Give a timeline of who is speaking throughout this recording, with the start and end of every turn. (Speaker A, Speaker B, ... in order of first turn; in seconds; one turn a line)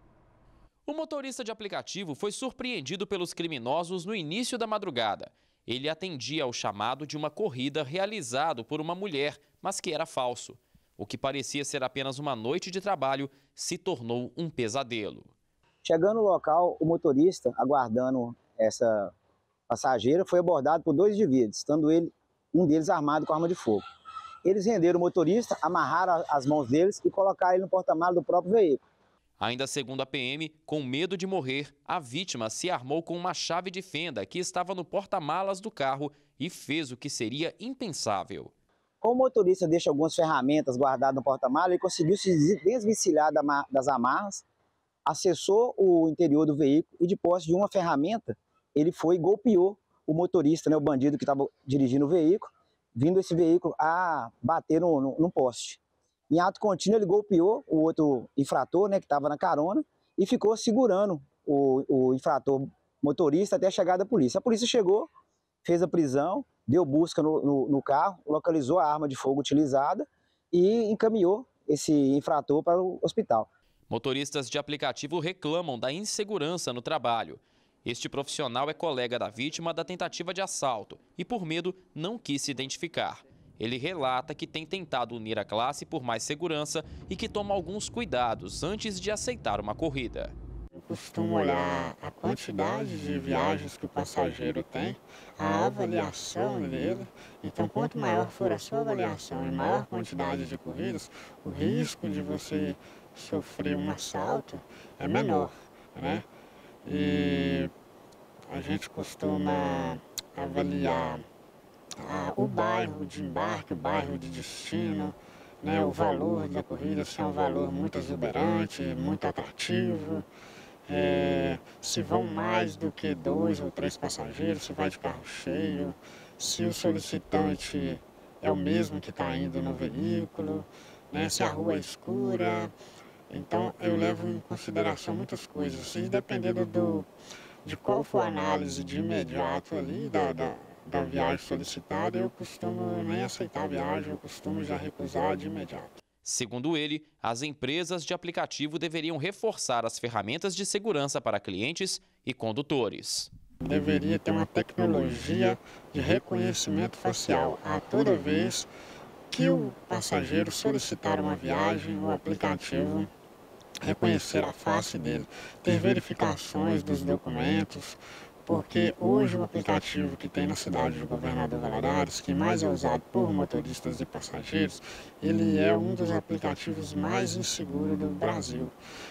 Speaker A: 0.8-15.3
Speaker B: 15.8-19.1
Speaker B: 19.7-23.8
Speaker B: 24.4-28.8
Speaker A: 29.4-38.5
Speaker B: 39.0-44.4
Speaker B: 45.1-65.1
Speaker B: 65.6-73.5
Speaker A: 73.9-90.3
Speaker C: 90.7-106.2
Speaker C: 106.8-107.7
Speaker C: 108.5-111.2
Speaker C: 112.0-120.2
Speaker C: 120.9-132.7
Speaker C: 133.3-137.1
Speaker C: 137.6-146.0
Speaker A: 146.2-153.3
Speaker C: 153.6-158.7
Speaker C: 159.3-163.1
Speaker C: 163.8-178.7